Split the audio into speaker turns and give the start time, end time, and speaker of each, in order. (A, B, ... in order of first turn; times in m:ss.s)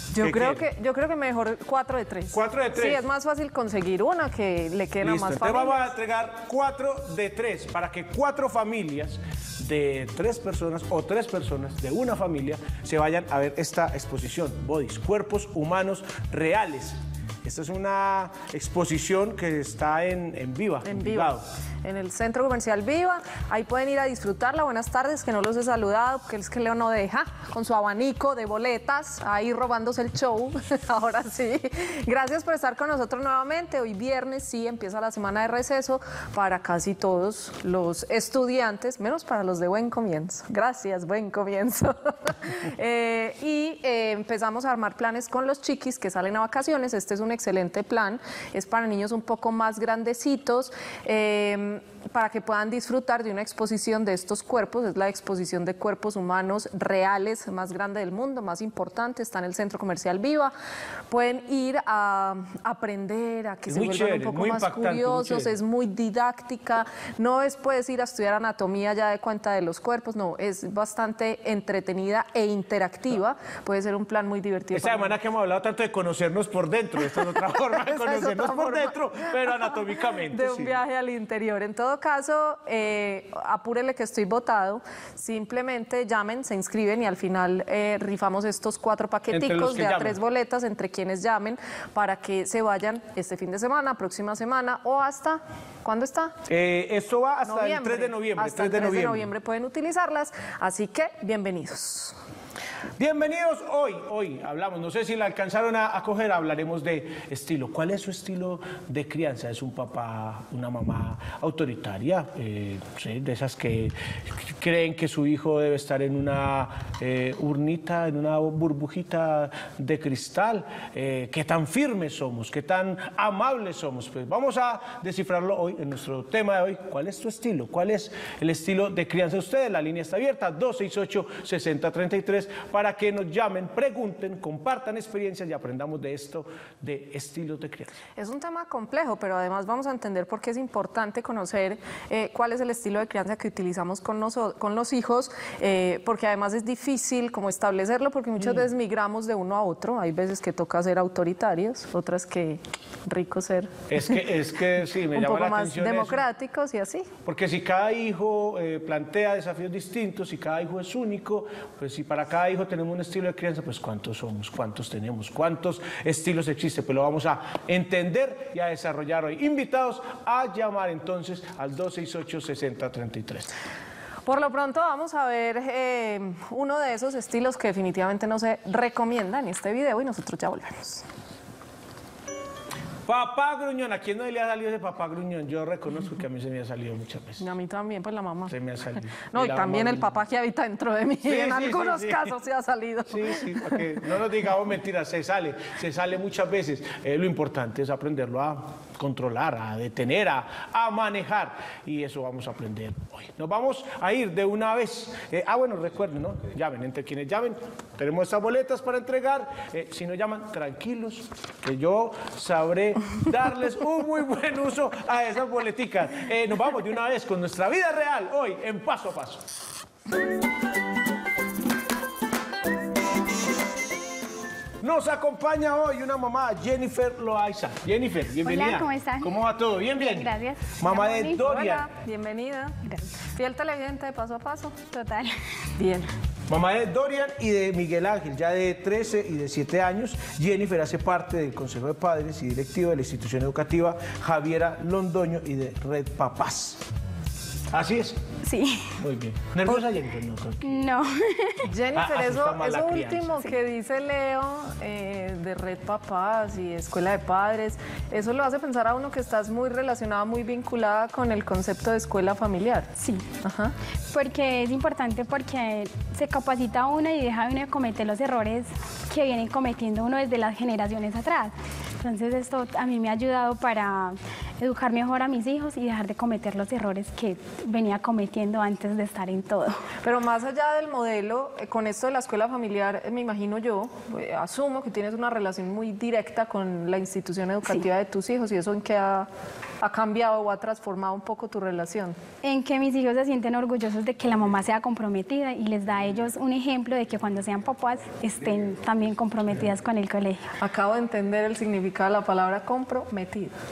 0:00.1-0:05.9 A
0:00.2-0:00.7 B
0:02.3-0:03.0 B
0:05.0-0:21.4 B
0:20.8-1:00.5 A
1:01.1-1:15.1 A
1:03.7-1:05.5 B
1:14.7-1:20.8 B
1:17.8-1:19.0 A
1:20.3-1:36.4 A
1:29.3-1:30.2 B
1:36.5-1:39.3 B
1:37.5-1:42.2 A
1:43.0-2:18.0 B
2:18.2-2:34.2 A
2:28.4-2:28.6 B
2:33.9-2:36.2 B
2:35.1-2:37.1 A
2:37.2-2:53.5 B
2:54.3-3:01.0 A
3:03.1-3:07.5 B
3:07.4-3:08.6 A
3:08.5-3:10.2 B
3:09.3-3:13.8 A
3:11.2-3:12.4 B
3:13.1-3:39.5 B
3:44.8-3:51.9 B
3:48.4-3:49.3 C
3:49.9-3:51.4 C
3:51.3-3:52.8 A
3:53.4-3:54.8 A
3:54.9-3:55.4 C
3:55.8-3:56.1 A
3:56.5-4:06.8 B
4:07.7-4:08.2 B
4:08.4-4:09.0 C
4:09.0-4:10.8 B
4:10.6-4:11.7 C
4:11.7-4:22.9 A
4:11.9-4:13.5 B
4:23.0-4:23.3 C
4:23.4-4:23.7 A
4:24.1-4:39.8 C
4:40.0-4:49.3 A
4:49.8-4:52.2 A
4:52.4-5:00.5 C
5:00.6-5:03.5 A